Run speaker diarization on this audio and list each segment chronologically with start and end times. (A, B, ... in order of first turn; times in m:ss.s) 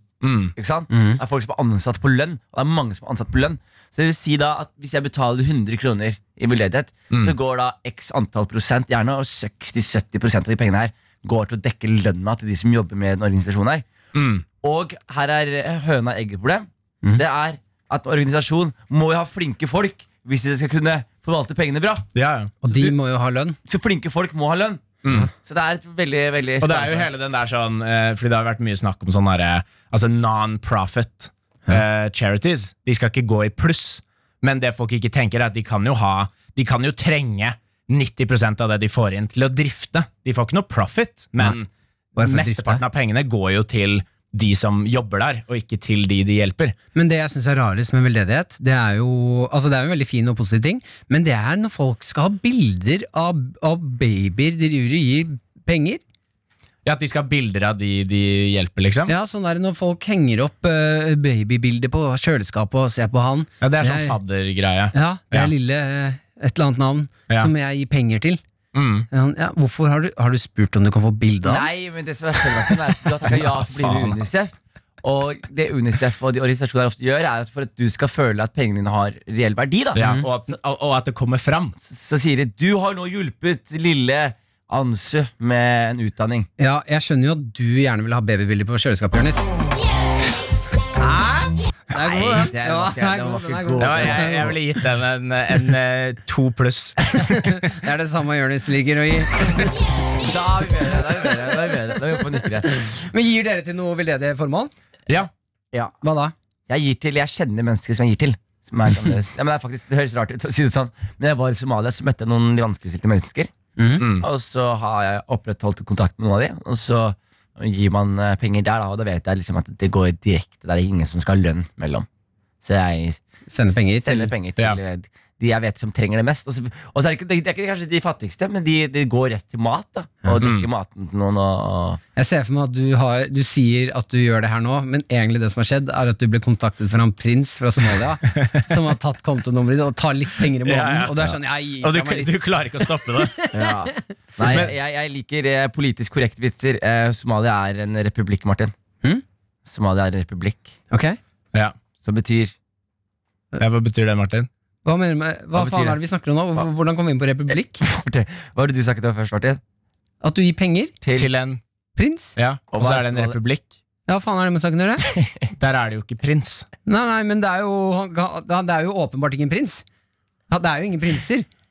0:00.2-0:00.5 A
0:00.6-0:13.8 B
0:00.9-0:01.2 C
0:14.1-0:14.4 A
0:14.6-0:22.1 B
0:22.1-0:22.5 A
0:22.6-0:23.6 C
0:22.6-0:23.0 B
0:23.6-0:24.9 B
0:25.0-0:25.3 A
0:25.4-0:27.1 B
0:26.6-0:41.7 A
0:42.2-0:42.8 C
0:42.2-0:46.8 A
0:46.9-0:56.0 C
0:56.8-0:59.1 A
0:59.1-1:04.2 C
1:03.6-1:05.5 A
1:04.9-1:08.4 C
1:08.7-1:09.1 A
1:09.1-1:11.7 C
1:11.4-1:20.0 B
1:13.3-1:14.2 A
1:19.9-1:21.7 A
1:20.0-1:20.3 C
1:21.8-1:26.5 B
1:26.6-1:29.5 C
1:31.0-1:31.5 A
1:31.1-1:31.4 C
1:31.9-1:34.5 C
1:32.0-1:34.5 B
1:33.8-1:37.7 A
1:37.1-1:39.7 C
1:40.2-1:42.7 B
1:42.7-1:44.7 C
1:46.0-1:46.3 C
1:46.7-2:02.0 B
1:53.8-1:54.0 C
1:54.0-1:54.3 A
2:02.6-2:12.0 B
2:03.5-2:04.3 C
2:10.4-2:10.7 A
2:12.2-2:23.6 C
2:18.4-2:18.6 A
2:20.6-2:23.4 A
2:23.5-2:28.7 B
2:24.4-2:24.7 A
2:29.6-2:30.7 B
2:30.9-2:31.2 C
2:32.0-2:32.5 B
2:33.6-2:34.5 A
2:34.8-2:37.8 C
2:35.5-2:36.0 B
2:37.8-2:39.6 B
2:40.2-2:40.9 C
2:41.0-2:41.3 B
2:41.1-2:41.6 A
2:42.0-2:42.3 C
2:42.4-2:43.7 A
2:42.7-2:43.4 B
2:44.1-2:45.0 C
2:45.1-2:45.5 B
2:45.6-2:46.7 A
2:46.8-2:49.8 C
2:50.5-2:51.5 C